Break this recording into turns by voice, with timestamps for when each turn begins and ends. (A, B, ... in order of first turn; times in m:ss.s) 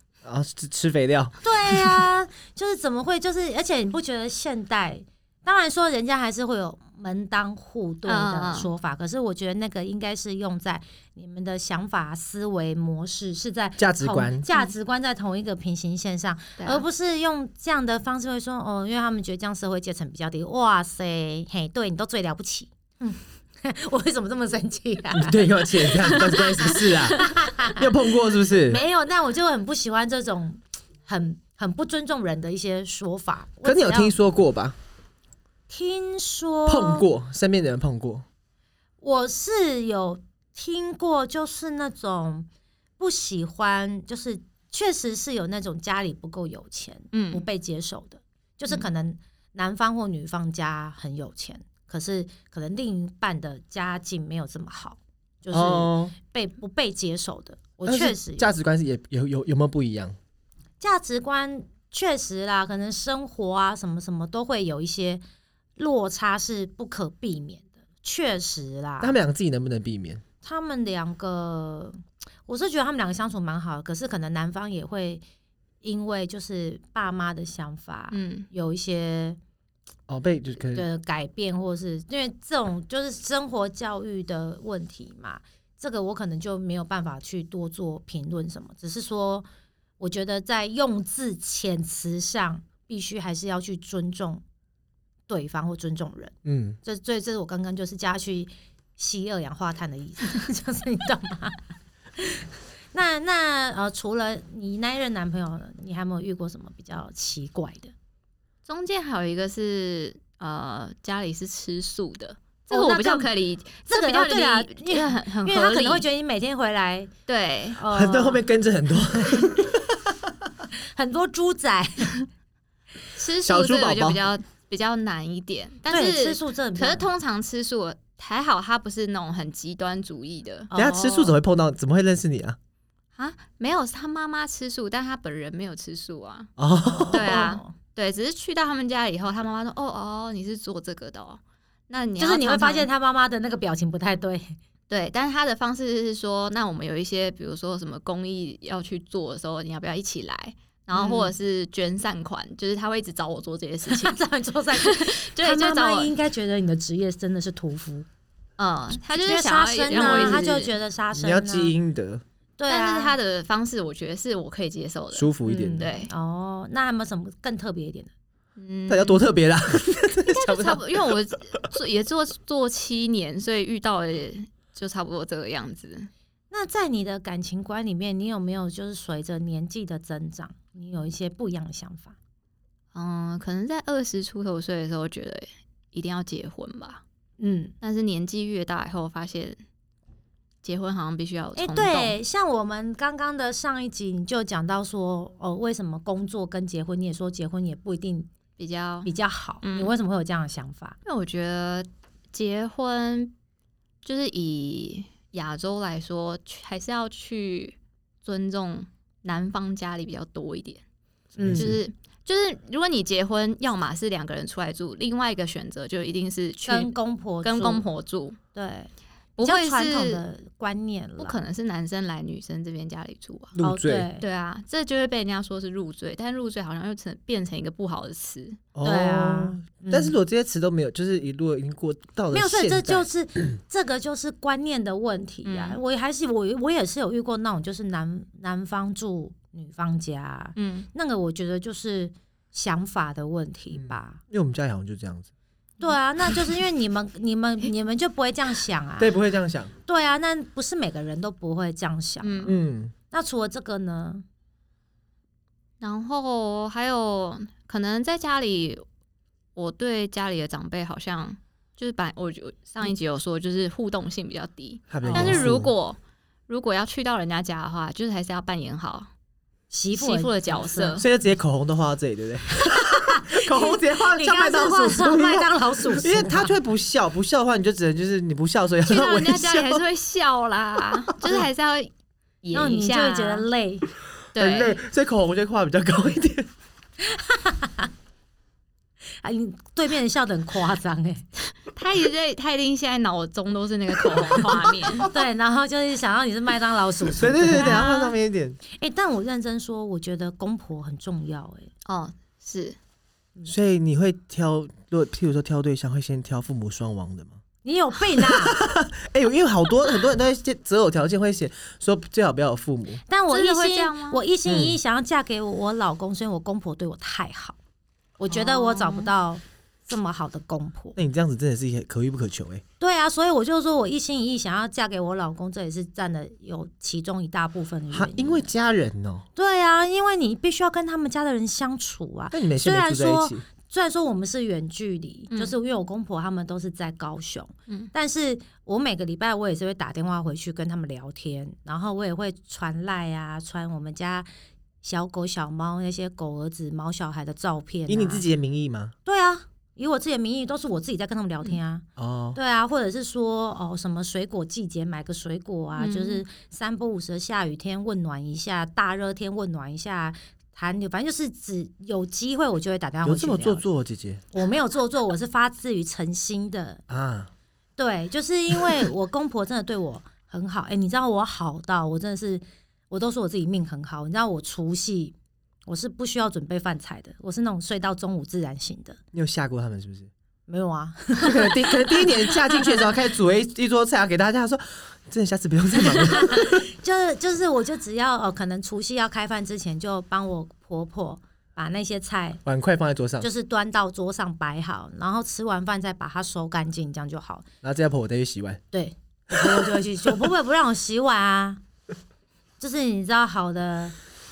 0:00.2-0:02.0 A
0:01.4-0:34.1 B
0:08.1-0:08.7 C
0:13.8-0:14.4 A
0:16.6-0:16.8 C
0:25.1-0:28.8 A
0:33.6-0:34.8 A
0:35.7-0:37.1 B
0:36.7-0:38.3 A
0:39.0-0:42.5 B
0:43.0-0:58.5 B
0:47.1-0:47.4 C
0:55.5-0:56.2 A
0:57.9-1:00.2 A
1:00.8-1:05.2 B
1:05.8-1:09.2 B
1:09.0-1:10.2 A
1:10.4-1:15.2 B
1:15.8-1:19.4 B
1:18.1-1:18.5 C
1:20.1-1:20.9 A
1:20.7-1:29.5 B
1:30.0-1:34.4 B
1:35.3-1:41.6 B
1:36.4-1:36.8 A
1:42.2-1:47.9 B
1:48.7-1:56.0 C
1:52.7-1:53.3 B
1:53.9-1:57.1 B
1:57.3-1:57.8 C
1:57.8-1:58.4 B
1:57.9-2:00.1 A
2:00.9-2:02.3 B
2:03.2-2:10.7 C
2:03.4-2:04.2 A
2:05.9-2:07.1 B
2:10.7-2:11.4 B
2:10.8-2:12.6 A
2:13.2-2:16.5 C
2:16.6-2:17.4 A
2:16.9-2:17.7 B
2:17.1-2:22.9 C
2:22.2-2:24.6 B
2:24.9-2:34.2 C
2:30.9-2:31.3 B
2:33.9-2:38.1 B
2:34.7-2:36.1 C
2:38.6-2:40.7 C
2:39.2-2:41.7 B
2:41.1-2:42.2 A
2:42.6-2:43.2 B
2:42.7-2:46.1 C
2:45.1-2:45.9 A
2:45.4-2:48.1 B
2:48.6-2:49.2 C
2:48.9-2:51.2 A
2:50.3-2:56.1 C
2:56.5-3:02.2 B
3:02.9-3:07.0 C
3:07.4-3:07.7 B
3:07.8-3:09.6 C
3:10.6-3:12.2 C
3:11.6-3:18.3 B
3:18.6-3:19.1 C
3:19.0-3:21.0 B
3:19.6-3:19.9 C
3:21.0-3:23.3 C
3:24.0-3:30.8 C
3:31.4-3:31.8 A
3:31.4-3:31.7 B
3:31.5-3:38.4 C
3:36.7-3:37.8 B
3:38.5-3:41.4 B
3:39.4-3:40.2 C
3:41.2-3:43.6 C
3:43.6-3:44.1 A
3:43.6-3:44.2 B
3:44.2-3:48.6 C
3:48.8-3:53.1 A
3:48.8-3:50.1 B
3:52.3-4:04.2 B
3:55.4-3:55.8 C
4:00.6-4:00.9 C
4:03.7-4:05.3 A
4:05.8-4:09.2 B
4:09.0-4:09.7 A
4:09.9-4:12.5 B
4:12.2-4:12.6 C
4:12.4-4:12.9 A
4:13.1-4:14.2 B
4:15.8-4:18.8 C
4:19.6-4:29.1 C
4:24.9-4:25.7 A
4:25.0-4:25.5 B
4:29.7-4:31.0 B
4:30.0-4:31.0 C
4:31.0-4:39.8 A
4:32.7-4:36.5 B
4:38.8-4:41.9 C
4:42.4-4:43.5 C
4:42.5-4:43.9 B
4:44.4-4:44.8 C
4:44.4-4:46.5 A
4:47.0-4:47.9 B
4:49.2-4:51.3 B
4:51.6-4:55.1 C
4:55.0-4:58.1 B
4:57.2-4:58.6 A
4:57.6-4:57.9 C
4:58.7-5:01.7 B
5:01.9-5:02.8 C
5:03.5-5:07.4 A
5:07.6-5:08.6 B
5:08.2-5:13.0 A
5:13.1-5:17.6 B
5:13.3-5:14.2 C
5:14.4-5:14.8 A
5:18.2-5:21.0 B
5:18.3-5:19.1 C
5:21.0-5:22.6 A
5:22.8-5:28.5 B
5:27.9-5:29.3 A
5:29.4-5:44.3 B
5:32.3-5:33.4 A
5:44.8-5:48.3 B
5:47.9-5:48.9 A
5:49.1-6:03.6 B
5:52.0-5:52.4 A
5:55.8-5:56.2 C
6:03.0-6:04.2 A
6:04.3-6:06.8 B
6:06.9-6:07.3 A
6:07.8-6:15.2 B
6:15.7-6:19.0 B
6:19.1-6:20.1 A
6:20.5-6:22.9 B
6:21.2-6:26.6 A
6:26.0-6:32.4 B
6:32.4-6:33.3 A
6:33.2-6:37.5 B
6:37.6-6:38.6 A
6:38.7-6:41.6 B
6:42.6-6:44.0 B